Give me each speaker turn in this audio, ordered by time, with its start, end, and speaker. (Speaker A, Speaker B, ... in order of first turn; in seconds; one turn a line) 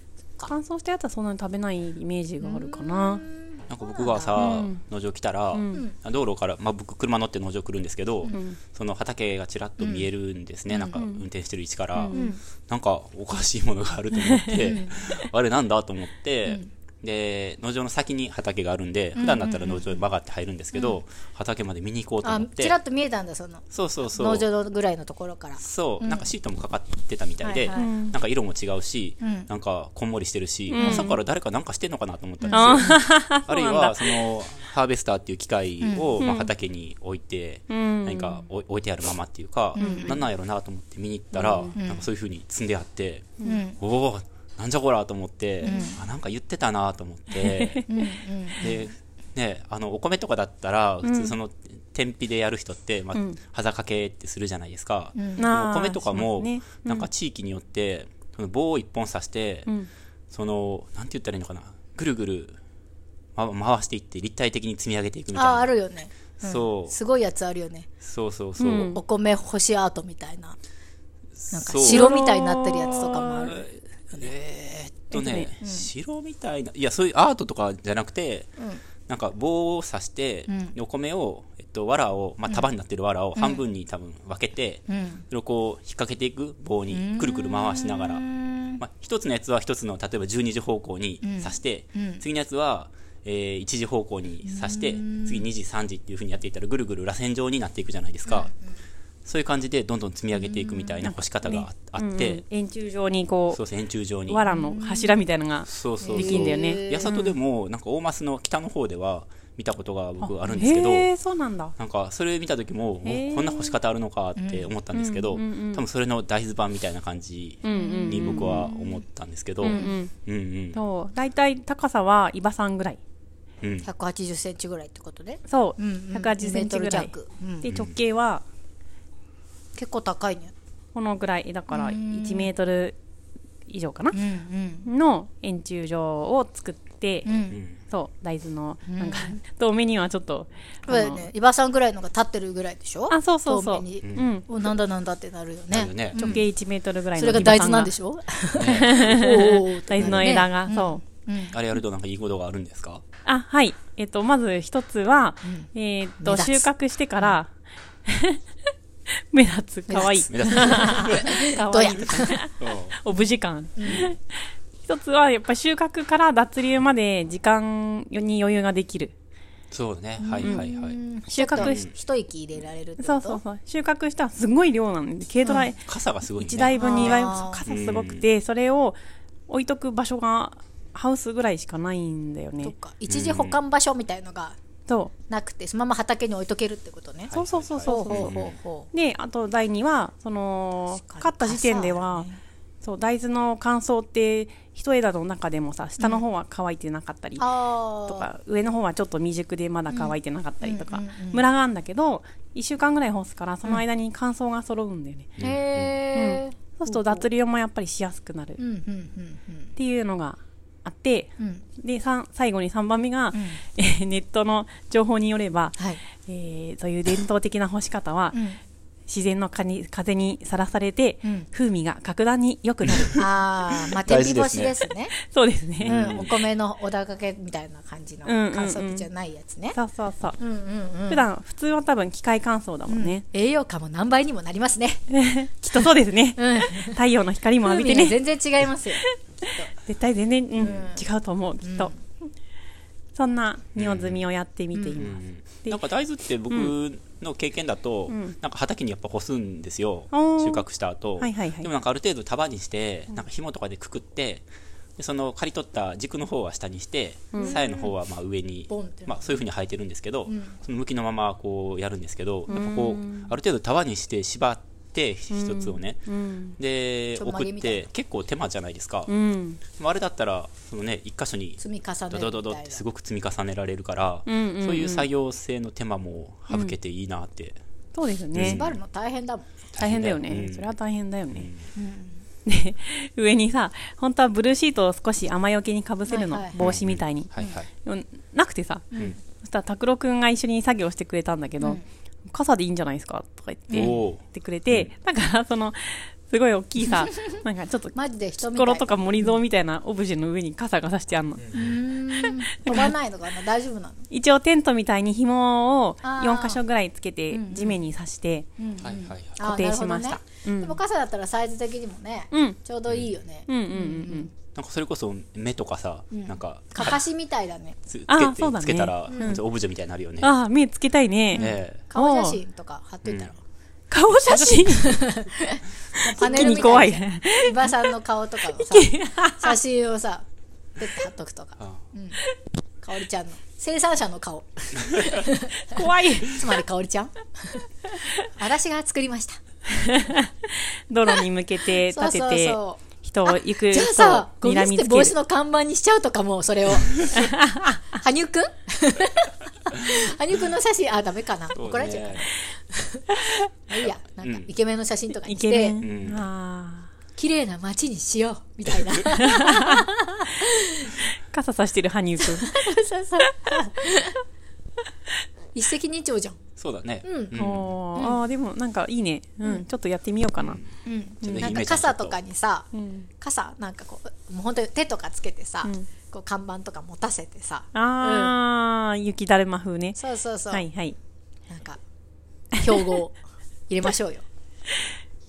Speaker A: 0.5-3.2
Speaker B: 2.4-4.4
Speaker C: 3.7-12.1
Speaker A: 4.3-4.8
Speaker A: 5.5-5.8
Speaker A: 8.3-8.6
Speaker B: 9.8-10.1
Speaker A: 10.7-11.2
Speaker A: 11.9-12.3
Speaker B: 12.1-12.4
Speaker C: 12.7-22.8
Speaker A: 14.4-15.2
Speaker B: 14.7-14.9
Speaker B: 19.2-20.0
Speaker B: 20.7-21.0
Speaker B: 22.2-26.3
Speaker C: 23.7-24.5
Speaker C: 25.6-47.8
Speaker B: 27.4-27.9
Speaker A: 27.7-28.1
Speaker B: 29.2-29.5
Speaker A: 30.7-31.2
Speaker B: 30.8-31.2
Speaker B: 32.4-32.8
Speaker A: 32.5-34.2
Speaker B: 35.8-36.2
Speaker A: 36.2-36.5
Speaker A: 37.7-38.5
Speaker A: 39.8-40.2
Speaker B: 39.8-40.2
Speaker A: 41.3-41.7
Speaker B: 41.7-42.1
Speaker B: 43.4-43.8
Speaker A: 45.6-46.0
Speaker B: 45.6-46.0
Speaker A: 47.3-47.9
Speaker B: 47.9-48.7
Speaker C: 48.6-59.7
Speaker A: 51.0-51.3
Speaker A: 53.1-53.4
Speaker B: 55.1-55.5
Speaker A: 55.4-57.1
Speaker C: 60.3-62.6
Speaker C: 63.4-65.7
Speaker B: 65.3-67.9
Speaker C: 66.4-67.0
Speaker C: 68.0-68.9
Speaker A: 68.6-69.0
Speaker B: 68.9-70.6
Speaker C: 71.4-72.2
Speaker B: 71.5-74.3
Speaker A: 71.8-73.5
Speaker C: 73.4-78.5
Speaker A: 75.1-75.5
Speaker B: 75.6-75.9
Speaker B: 78.6-78.8
Speaker C: 79.1-88.2
Speaker B: 80.5-80.7
Speaker B: 83.3-83.7
Speaker B: 84.9-85.2
Speaker B: 86.9-88.8
Speaker C: 88.8-98.5
Speaker B: 91.2-92.2
Speaker B: 94.4-95.5
Speaker B: 98.2-98.8
Speaker C: 99.2-102.4
Speaker B: 100.3-101.0
Speaker A: 101.0-103.6
Speaker C: 103.5-104.4
Speaker A: 104.3-107.4
Speaker B: 104.5-105.2
Speaker C: 105.7-111.1
Speaker B: 106.0-107.1
Speaker A: 110.2-111.7
Speaker C: 111.8-120.8
Speaker A: 113.0-113.8
Speaker B: 114.3-114.7
Speaker A: 114.9-115.8
Speaker A: 117.6-118.7
Speaker B: 117.7-119.0
Speaker A: 119.6-120.1
Speaker B: 119.7-120.0
Speaker A: 120.7-123.0
Speaker C: 123.6-123.9
Speaker B: 123.8-127.7
Speaker A: 125.5-127.1
Speaker A: 127.6-128.4
Speaker C: 127.7-128.0
Speaker B: 129.7-130.5
Speaker A: 130.9-132.9
Speaker B: 131.7-132.5
Speaker A: 133.7-134.2
Speaker B: 134.1-134.9
Speaker A: 134.8-137.3
Speaker B: 137.2-137.6
Speaker C: 137.5-137.8
Speaker A: 137.8-141.3
Speaker B: 138.9-139.4
Speaker B: 140.8-146.4
Speaker A: 143.1-144.5
Speaker C: 145.7-146.4
Speaker A: 146.2-147.9
Speaker B: 147.2-151.6
Speaker C: 148.5-148.9
Speaker A: 148.7-151.0
Speaker C: 149.9-150.4
Speaker C: 151.5-153.0
Speaker A: 153.2-157.5
Speaker B: 155.4-155.7
Speaker B: 156.2-157.4
Speaker A: 158.1-158.4
Speaker A: 159.3-169.1
Speaker B: 159.9-162.4
Speaker C: 160.3-161.1
Speaker C: 162.6-163.0
Speaker B: 163.8-164.1
Speaker C: 169.7-171.0
Speaker B: 170.2-173.4
Speaker A: 170.4-170.7
Speaker A: 171.3-171.9
Speaker C: 171.6-171.9
Speaker A: 173.0-179.0
Speaker B: 175.4-175.7
Speaker C: 175.8-178.2
Speaker B: 176.7-177.6
Speaker A: 179.5-182.7
Speaker B: 182.6-184.6
Speaker C: 183.1-183.6
Speaker A: 184.9-185.1
Speaker B: 185.3-188.9
Speaker C: 187.3-188.5
Speaker A: 187.3-188.4
Speaker A: 188.9-192.3
Speaker B: 190.9-192.4
Speaker A: 192.8-197.4
Speaker B: 196.0-196.2
Speaker B: 197.4-198.3
Speaker A: 198.1-205.4
Speaker B: 199.9-201.4
Speaker C: 205.4-205.9
Speaker B: 205.4-207.2
Speaker A: 206.1-208.6
Speaker B: 208.6-209.7
Speaker A: 209.8-218.4
Speaker B: 211.4-211.6
Speaker B: 213.3-213.6
Speaker B: 215.8-216.0
Speaker B: 218.3-218.6
Speaker A: 219.1-223.3
Speaker B: 221.2-221.5
Speaker C: 222.9-223.2
Speaker B: 223.2-225.1
Speaker C: 223.7-224.7
Speaker A: 225.1-226.1
Speaker C: 225.8-226.3
Speaker B: 225.8-229.8
Speaker A: 228.2-229.1
Speaker A: 229.7-230.4
Speaker B: 230.4-231.3
Speaker A: 231.1-233.2
Speaker B: 232.9-235.0
Speaker A: 235.1-238.2
Speaker B: 235.7-237.0
Speaker B: 237.6-239.7
Speaker A: 239.8-241.9
Speaker B: 240.6-241.0
Speaker B: 241.6-242.0
Speaker A: 243.1-245.8
Speaker C: 243.8-244.2
Speaker B: 244.7-245.0
Speaker C: 245.0-254.4
Speaker A: 248.1-248.4
Speaker A: 250.1-250.7
Speaker A: 251.2-251.7
Speaker C: 255.0-266.1
Speaker A: 257.3-257.6
Speaker B: 257.4-257.9
Speaker B: 258.7-259.4
Speaker B: 260.2-260.6
Speaker A: 262.5-263.3
Speaker A: 265.3-266.6
Speaker C: 266.6-269.1
Speaker B: 267.1-267.9
Speaker A: 269.1-269.6
Speaker C: 269.7-271.6
Speaker B: 271.6-272.8
Speaker C: 272.1-277.6
Speaker A: 274.2-275.1
Speaker A: 276.5-276.8
Speaker A: 277.9-278.6
Speaker C: 278.3-278.8
Speaker B: 278.4-279.5
Speaker C: 279.7-280.7
Speaker A: 279.8-281.5
Speaker C: 281.3-281.7
Speaker B: 281.7-282.2
Speaker A: 282.4-287.3
Speaker B: 286.1-286.6
Speaker C: 286.6-287.7
Speaker A: 287.8-301.5
Speaker B: 288.9-289.2
Speaker C: 293.7-294.9
Speaker B: 297.9-299.4
Speaker B: 301.5-304.1
Speaker A: 302.1-302.9
Speaker A: 304.1-308.5
Speaker B: 306.0-306.6
Speaker B: 307.3-307.8
Speaker B: 308.6-314.3
Speaker C: 308.8-309.4
Speaker A: 309.4-310.8
Speaker A: 312.3-312.6
Speaker A: 313.5-314.3
Speaker C: 314.5-317.0
Speaker B: 316.1-317.8
Speaker C: 317.9-320.3
Speaker A: 318.1-319.4
Speaker B: 319.1-319.4
Speaker A: 320.2-322.4
Speaker C: 321.3-321.8
Speaker B: 321.4-323.4
Speaker C: 323.0-323.3
Speaker A: 323.9-325.1
Speaker C: 324.2-324.6
Speaker B: 324.8-330.2
Speaker A: 326.0-327.9
Speaker A: 328.6-329.5
Speaker B: 330.8-332.2
Speaker B: 332.8-337.7
Speaker A: 335.6-336.6
Speaker B: 338.4-339.4
Speaker A: 339.8-345.1
Speaker B: 341.8-347.4
Speaker A: 347.1-347.8
Speaker B: 347.9-353.1
Speaker C: 351.5-352.3
Speaker A: 353.1-353.5
Speaker B: 353.7-355.8
Speaker C: 353.8-354.5
Speaker A: 355.2-356.9
Speaker C: 355.8-356.2
Speaker B: 357.1-360.9
Speaker A: 359.2-359.8
Speaker A: 361.1-362.5
Speaker B: 362.2-364.2
Speaker B: 365.5-366.4
Speaker C: 366.6-367.7
Speaker B: 367.0-367.4
Speaker A: 367.3-370.6
Speaker C: 370.4-370.7
Speaker B: 370.8-372.7
Speaker C: 371.2-372.2
Speaker A: 372.7-373.1
Speaker B: 373.2-378.3
Speaker A: 377.7-380.0
Speaker B: 380.0-380.6
Speaker A: 380.5-381.0
Speaker B: 381.5-381.8
Speaker B: 382.6-384.2
Speaker A: 382.6-382.9